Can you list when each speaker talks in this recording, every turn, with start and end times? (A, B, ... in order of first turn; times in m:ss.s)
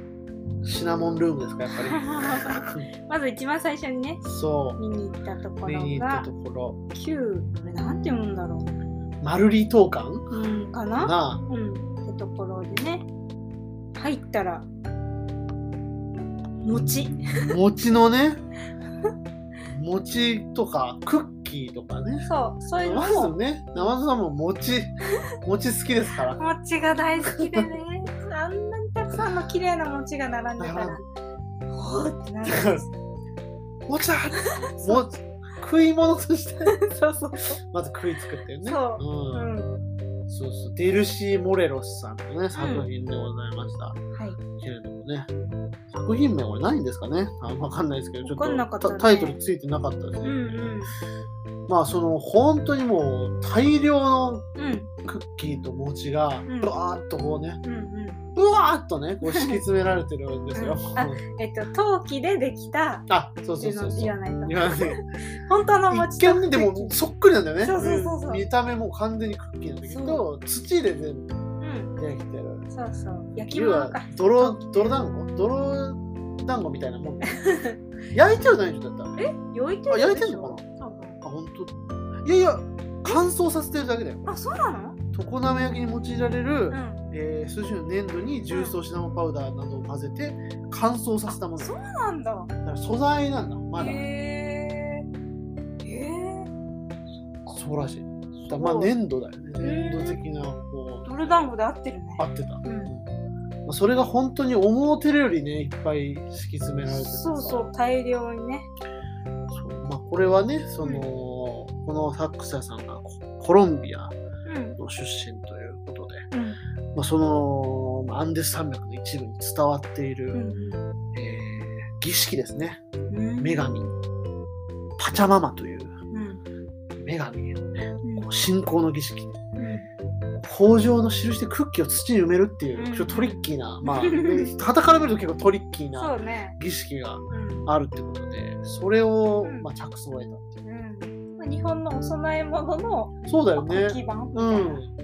0:00.6-0:02.8 A
0:01.7-0:04.2 B
0:04.2-0:04.8 A
0:04.8-0:06.3 B
0:05.6-0:06.8 A
0:06.9-0:08.7 B
0:09.2-0:10.3 A
0:10.3-0:13.1 B
0:11.0-0:11.4 A
0:14.0-0:14.7 B
0:16.6-0:17.6 B
0:16.7-0:18.4 A
0:19.7-0:22.3 A
0:22.2-0:24.0 B
0:22.8-0:26.4 A
0:26.4-0:31.0 B
0:27.3-0:27.7 A
0:30.6-0:31.0 A
0:31.7-0:33.0 B
0:32.4-0:32.8 A
0:33.9-0:36.8 A
0:34.4-0:35.0 B
0:36.7-0:37.6 B
0:37.6-0:39.5 A
0:38.6-0:39.8 B
0:40.3-0:44.0 A
0:42.5-0:42.9 B
0:44.6-0:45.3 A
0:45.9-0:50.8 A
0:48.2-0:49.4 B
0:50.2-0:50.9 B
0:51.7-0:54.5 A
0:54.6-0:54.9 B
0:55.0-0:57.6 A
0:56.5-0:56.8 B
0:57.6-0:58.2 B
0:58.4-1:01.2 A
0:59.2-0:59.6 B
1:00.5-1:03.1 B
1:03.1-1:05.0 A
1:03.6-1:07.0 B
1:05.9-1:11.3 A
1:07.6-1:08.4 B
1:09.8-1:10.2 B
1:11.6-1:11.9 B
1:12.0-1:12.7 A
1:12.7-1:15.0 B
1:13.5-1:17.4 A
1:17.3-1:17.8 B
1:18.1-1:19.3 A
1:19.2-1:21.2 B
1:19.9-1:20.6 A
1:21.2-1:21.7 A
1:22.2-1:24.4 A
1:24.3-1:25.0 B
1:25.1-1:31.8 A
1:26.7-1:27.0 B
1:28.5-1:28.8 B
1:31.6-1:32.5 B
1:32.6-1:34.0 A
1:33.8-1:35.0 B
1:35.8-1:36.5 B
1:37.1-1:37.6 B
1:37.6-1:41.3 A
1:38.4-1:38.9 B
1:39.6-1:40.2 B
1:41.0-1:42.9 B
1:42.2-1:43.1 A
1:43.7-1:47.7 A
1:46.9-1:48.7 B
1:49.5-1:54.1 A
1:54.5-1:54.8 B
1:54.8-1:56.2 A
1:56.3-1:56.6 B
1:57.0-2:00.4 A
2:00.3-2:00.8 B
2:01.1-2:02.8 A
2:03.1-2:03.8 B
2:03.4-2:03.9 A
2:05.0-2:06.0 A
2:06.1-2:06.4 B
2:07.0-2:09.4 A
2:08.0-2:08.3 B
2:09.6-2:09.9 B
2:10.4-2:20.6 A
2:12.8-2:14.5 B
2:16.0-2:16.6 B
2:17.3-2:17.7 B
2:19.4-2:19.7 B
2:20.6-2:24.8 B
2:23.3-2:24.9 A